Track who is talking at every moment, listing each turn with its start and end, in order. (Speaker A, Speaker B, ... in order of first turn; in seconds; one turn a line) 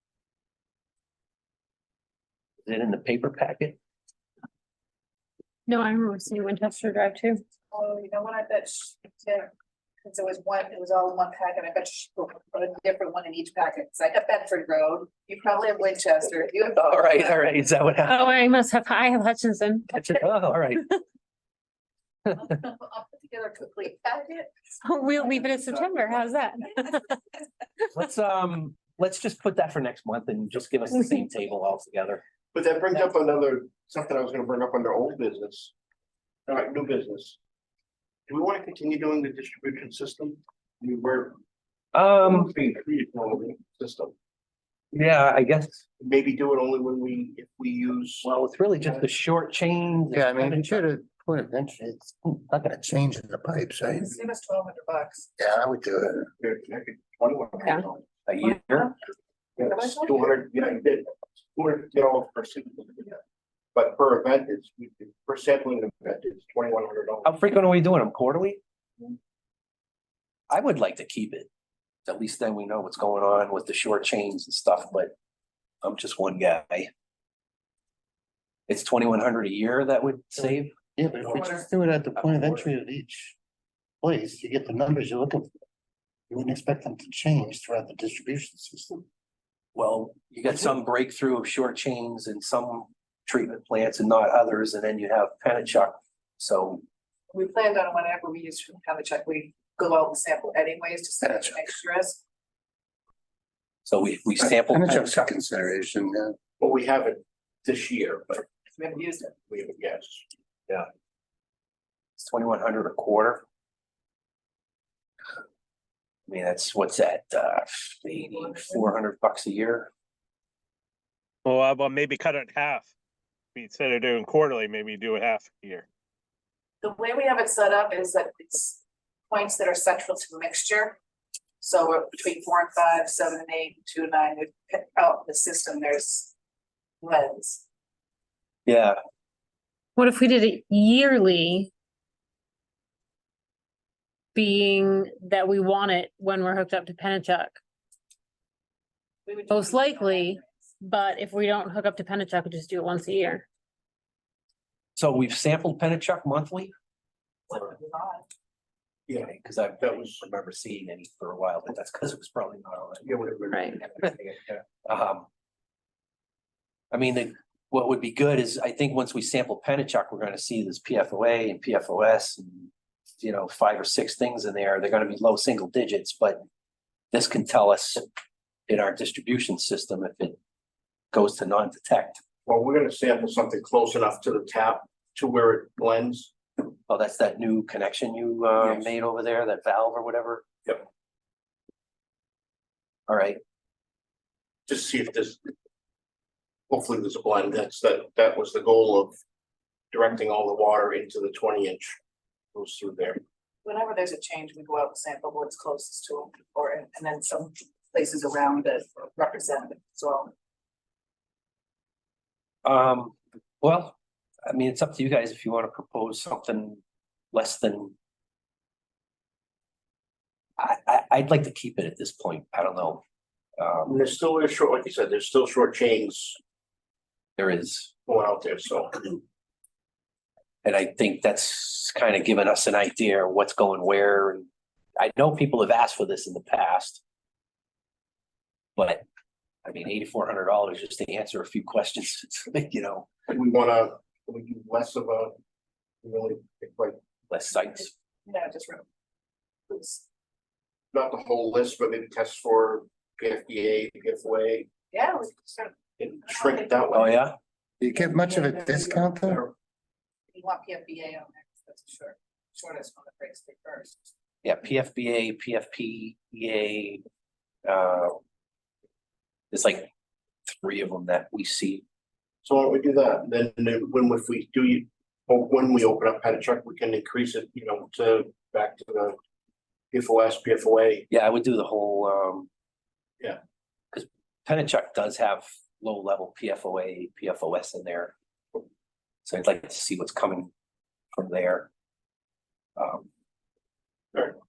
Speaker A: 2.6-3.8
Speaker B: 5.7-7.4
Speaker C: 7.7-9.5
Speaker C: 10.0-17.5
Speaker A: 16.8-18.2
Speaker B: 18.1-21.0
Speaker A: 19.9-20.8
Speaker C: 22.3-26.2
Speaker B: 24.8-27.2
Speaker A: 27.9-32.2
Speaker D: 32.5-35.7
Speaker D: 36.5-37.4
Speaker D: 38.3-41.4
Speaker A: 41.9-42.5
Speaker D: 42.2-44.1
Speaker A: 44.9-45.8
Speaker D: 46.0-48.3
Speaker A: 48.2-50.8
Speaker E: 50.1-54.2
Speaker C: 54.0-55.3
Speaker E: 55.4-56.3
Speaker D: 56.4-58.0
Speaker A: 58.2-58.9
Speaker C: 58.5-58.9
Speaker D: 59.6-63.2
Speaker C: 59.6-60.2
Speaker D: 63.8-67.3
Speaker A: 67.2-68.6
Speaker A: 70.5-71.5
Speaker A: 72.0-75.1
Speaker A: 75.8-76.9
Speaker A: 78.7-80.7
Speaker E: 81.0-83.4
Speaker E: 84.0-85.5
Speaker E: 86.3-89.0
Speaker A: 89.7-96.8
Speaker C: 97.3-102.2
Speaker E: 101.2-101.7
Speaker A: 103.8-105.2
Speaker E: 104.4-106.3
Speaker D: 106.6-108.4
Speaker C: 108.8-109.4
Speaker D: 109.5-110.8
Speaker A: 112.2-113.4
Speaker A: 116.3-119.9
Speaker F: 121.4-122.9
Speaker F: 123.5-125.9
Speaker C: 126.8-131.0
Speaker C: 131.6-136.3
Speaker C: 137.0-137.7
Speaker A: 138.7-139.0
Speaker B: 140.0-141.7
Speaker B: 144.3-147.6
Speaker C: 149.2-150.7
Speaker B: 149.5-153.4
Speaker A: 155.0-156.7
Speaker C: 157.5-158.3
Speaker D: 159.1-160.2
Speaker A: 159.2-163.2
Speaker D: 163.0-164.6
Speaker B: 163.5-163.8
Speaker A: 164.8-165.3
Speaker A: 166.9-176.4
Speaker A: 177.1-178.0
Speaker A: 178.7-180.4
Speaker A: 181.1-182.2
Speaker D: 182.4-186.3
Speaker A: 186.9-190.5
Speaker D: 188.6-188.9
Speaker A: 193.1-193.4
Speaker D: 194.7-195.5
Speaker D: 196.7-199.2
Speaker D: 199.9-202.0
Speaker D: 202.5-203.2
Speaker C: 203.6-210.3
Speaker A: 212.7-216.8
Speaker A: 217.3-217.9
Speaker A: 220.6-223.0
Speaker A: 223.6-223.9
Speaker D: 223.9-226.4
Speaker A: 227.4-227.9
Speaker D: 228.1-229.2
Speaker A: 230.6-234.5
Speaker A: 235.0-237.0
Speaker A: 238.8-239.0
Speaker A: 239.7-243.1
Speaker D: 243.3-245.4
Speaker D: 246.0-247.0
Speaker A: 247.3-247.9
Speaker C: 248.2-248.8
Speaker C: 249.7-250.0
Speaker D: 250.9-254.7
Speaker C: 254.9-257.1
Speaker D: 256.0-257.2
Speaker A: 256.9-257.4
Speaker E: 257.8-259.4
Speaker C: 258.1-259.0
Speaker D: 258.9-259.5
Speaker C: 260.3-264.1
Speaker A: 264.4-267.0
Speaker A: 267.6-268.2
Speaker A: 269.5-269.9
Speaker A: 270.5-271.8
Speaker D: 272.4-279.2
Speaker D: 279.9-281.1
Speaker A: 281.1-282.5
Speaker A: 283.9-288.1
Speaker A: 289.2-290.5
Speaker A: 291.1-291.7
Speaker A: 292.8-293.1